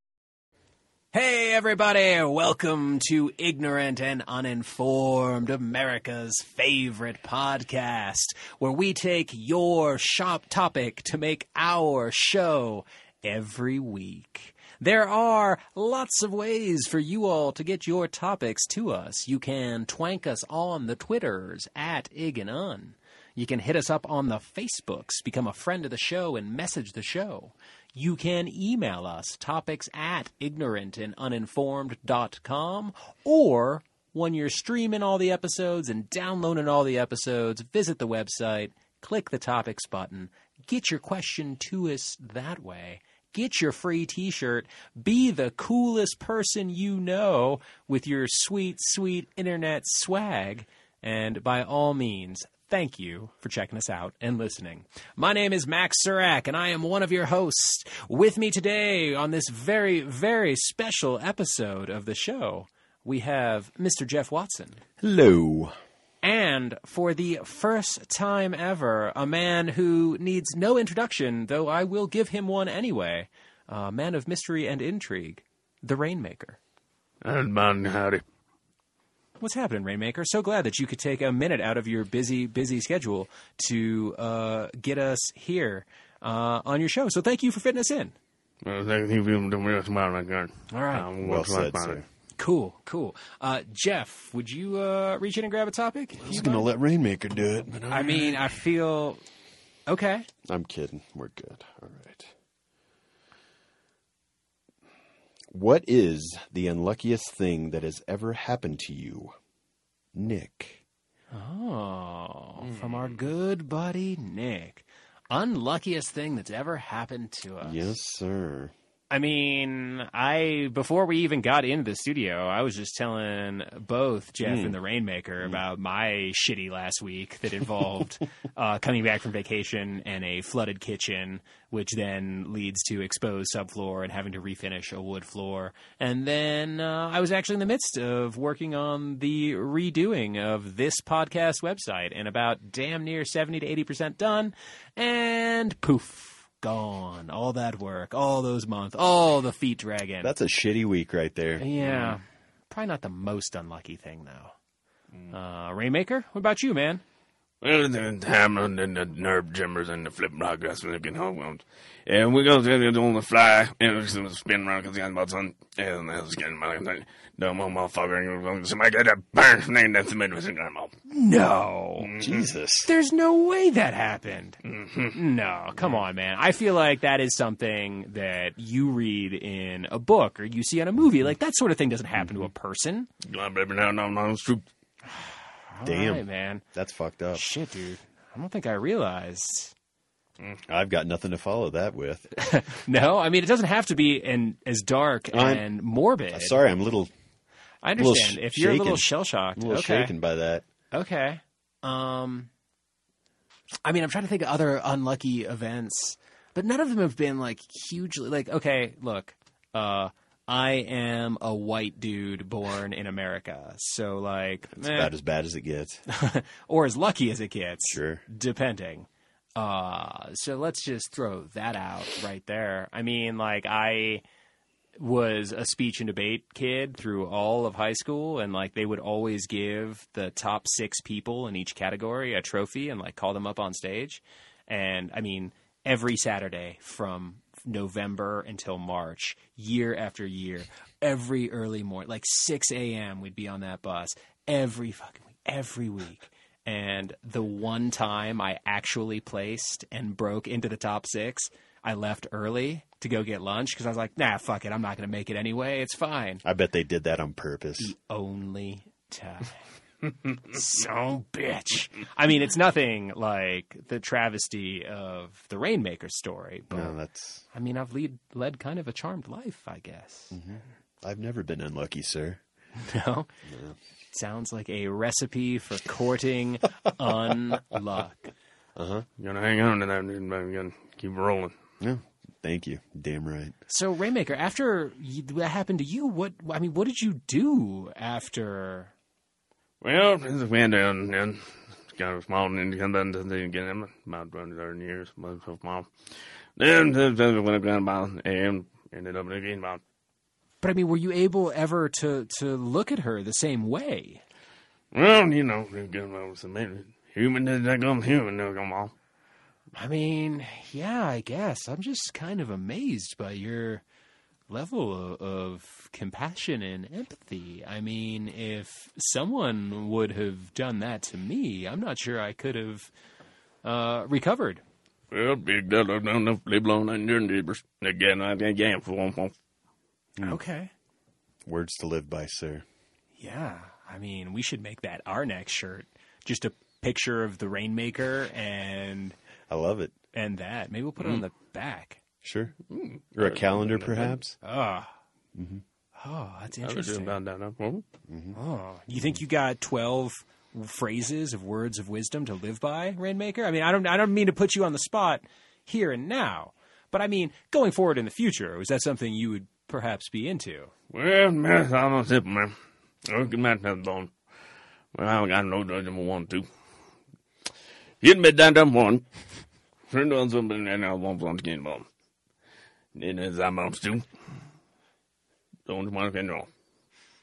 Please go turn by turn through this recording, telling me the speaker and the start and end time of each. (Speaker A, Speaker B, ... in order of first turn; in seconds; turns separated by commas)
Speaker A: 1.1-64.8, Speaker B: 65.0-65.7, Speaker A: 66.2-76.6, Speaker C: 77.2-78.2, Speaker A: 79.4-88.1, Speaker C: 88.6-92.0, Speaker A: 90.7-91.1, Speaker B: 91.2-92.0, Speaker A: 92.4-96.7, Speaker B: 96.2-98.4, Speaker A: 97.9-99.2, Speaker A: 99.9-100.3, Speaker B: 100.5-102.3, Speaker B: 105.5-109.3, Speaker B: 110.1-110.8, Speaker A: 111.3-117.9, Speaker B: 117.6-118.7, Speaker A: 119.1-150.3, Speaker B: 124.4-124.8, Speaker B: 150.2-152.0, Speaker A: 151.6-154.5, Speaker A: 155.3-157.0, Speaker C: 157.6-170.9, Speaker A: 171.1-172.1, Speaker C: 172.0-172.5, Speaker B: 172.2-172.9, Speaker A: 172.8-174.6, Speaker C: 174.7-175.2, Speaker A: 175.1-183.1, Speaker B: 182.2-182.5, Speaker C: 183.2-184.7, Speaker A: 185.1-186.6, Speaker B: 185.8-187.4, Speaker A: 187.3-189.7, Speaker B: 190.7-192.3, Speaker A: 192.4-196.6, Speaker B: 195.3-195.6, Speaker B: 196.3-197.1, Speaker A: 197.8-200.1, Speaker B: 198.0-200.6, Speaker A: 200.9-202.5, Speaker A: 203.8-215.1, Speaker B: 214.7-216.0, Speaker A: 216.1-224.2, Speaker B: 217.9-218.2, Speaker A: 225.0-256.4, Speaker B: 256.4-257.9, Speaker A: 257.8-259.6, Speaker A: 260.5-266.9, Speaker B: 266.7-267.4, Speaker A: 267.5-270.4, Speaker B: 270.3-272.4, Speaker A: 272.8-273.3, Speaker B: 273.5-273.8, Speaker A: 274.1-278.3, Speaker B: 278.8-279.1, Speaker C: 279.2-281.5, Speaker B: 281.8-283.5, Speaker A: 283.7-288.9, Speaker C: 289.8-295.9, Speaker C: 296.6-299.8, Speaker A: 300.6-304.2, Speaker C: 304.9-308.9, Speaker A: 309.7-313.8, Speaker A: 314.5-322.9, Speaker A: 323.6-324.6, Speaker C: 325.1-329.3, Speaker A: 330.2-330.7, Speaker B: 331.4-332.6, Speaker A: 333.2-339.1, Speaker B: 339.5-339.9, Speaker A: 340.1-342.0, Speaker B: 342.2-342.5, Speaker C: 342.7-344.2, Speaker B: 343.2-344.4, Speaker A: 344.4-344.9, Speaker B: 345.3-345.6, Speaker A: 346.0-347.1, Speaker C: 346.6-347.8, Speaker B: 348.1-348.4, Speaker A: 348.3-360.7, Speaker C: 360.9-362.5, Speaker C: 363.1-364.1, Speaker C: 364.9-366.5, Speaker C: 368.0-369.0, Speaker C: 369.9-371.9, Speaker C: 372.9-374.1, Speaker C: 375.7-376.5